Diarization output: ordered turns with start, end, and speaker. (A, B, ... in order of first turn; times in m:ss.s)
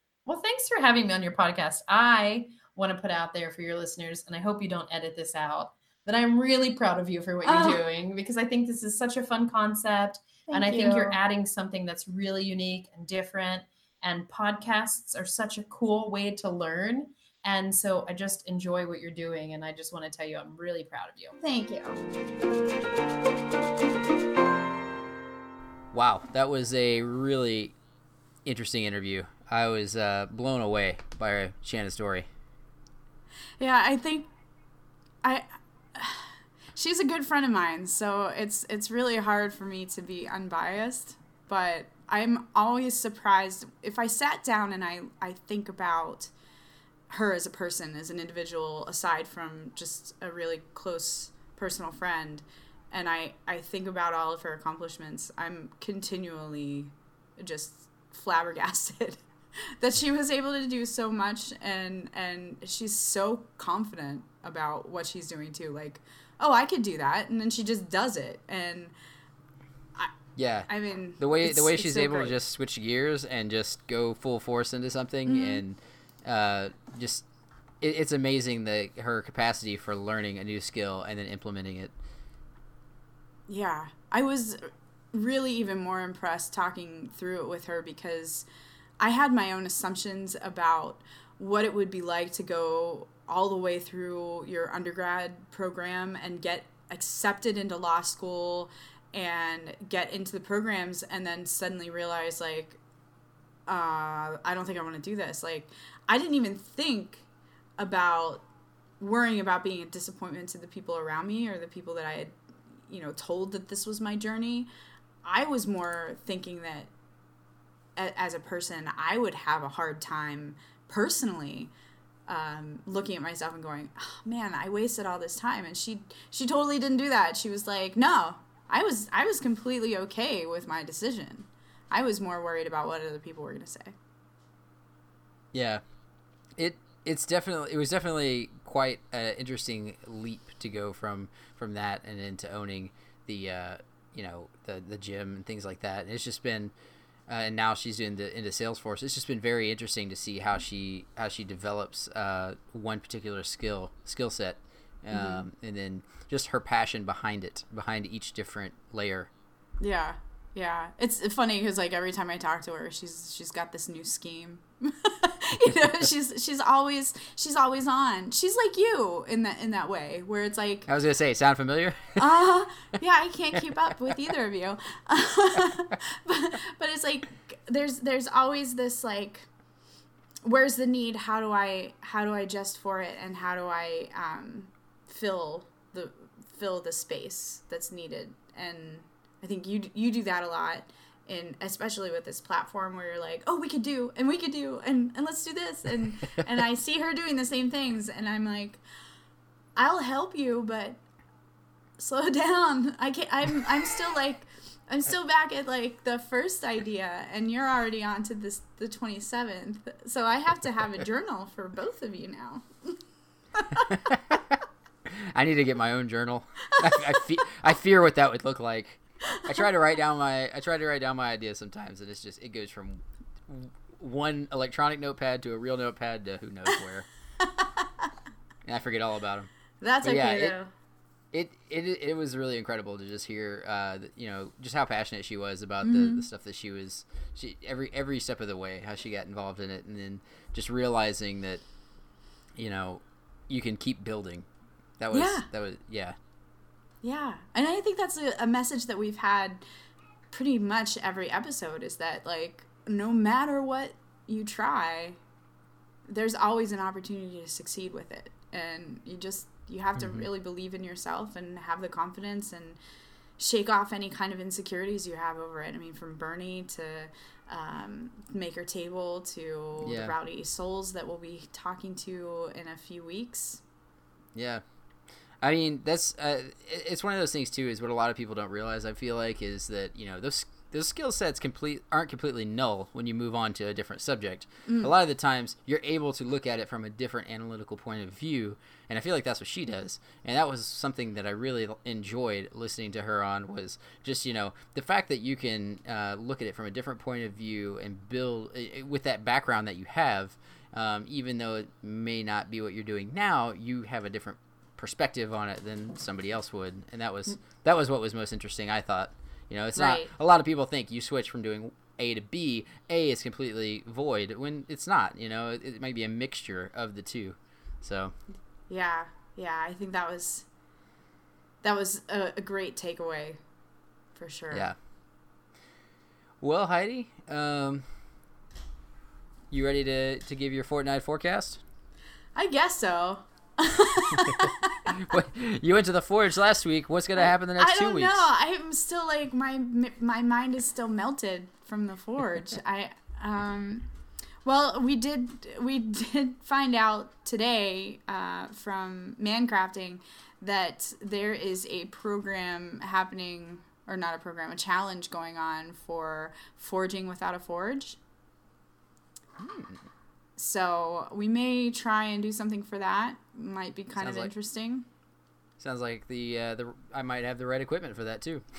0:00.2-0:21.3 A
0:07.4-0:07.8 B
0:10.5-0:11.2 B
0:21.4-0:22.0 B
0:25.9-0:27.7 C
0:28.4-0:32.3 C
0:33.6-0:34.3 B
0:35.2-0:46.3 B
0:47.1-1:08.9 B
1:10.4-1:17.3 C
1:10.7-1:12.4 B
1:15.3-1:15.6 B
1:17.8-1:21.9 C
1:23.5-1:28.4 B
1:29.0-1:42.8 B
1:43.7-1:47.2 B
1:47.8-1:48.4 B
1:49.0-1:52.4 B
1:52.9-1:54.7 B
1:55.2-1:56.9 B
1:58.0-2:01.7 B
2:02.3-2:13.9 B
2:15.5-2:15.8 C
2:16.6-2:26.7 C
2:27.3-2:39.3 C
2:35.1-2:35.4 B
2:39.8-2:50.9 B
2:50.9-2:52.3 C
2:52.2-2:59.5 B
3:00.4-3:18.8 B
3:19.8-3:21.0 B
3:22.0-3:33.0 B
3:33.5-3:33.8 B
3:33.8-3:47.1 C
3:47.4-3:47.8 B
3:48.6-3:49.5 C
3:49.8-3:50.7 B
3:50.0-3:50.6 C
3:51.3-4:01.6 C
3:55.8-3:56.2 B
4:02.5-4:04.4 C
4:05.0-4:06.2 C
4:05.1-4:05.5 B
4:07.0-4:09.6 B
4:10.3-4:15.2 B
4:16.1-4:22.8 B
4:20.0-4:20.3 C
4:23.4-4:33.6 B
4:29.8-4:30.2 C
4:34.3-4:34.6 C
4:35.4-5:18.2 C
5:09.8-5:10.1 B
5:18.7-5:20.5 B
5:21.6-5:23.4 B
5:24.1-5:24.7 B
5:26.4-5:27.8 C
5:29.5-5:31.6 C
5:32.3-5:34.9 B
5:34.2-5:38.3 C
5:37.2-5:43.8 B
5:44.4-5:58.0 B
5:59.4-5:59.8 C
6:00.4-6:04.9 B
6:04.0-6:04.3 C
6:05.6-6:08.4 C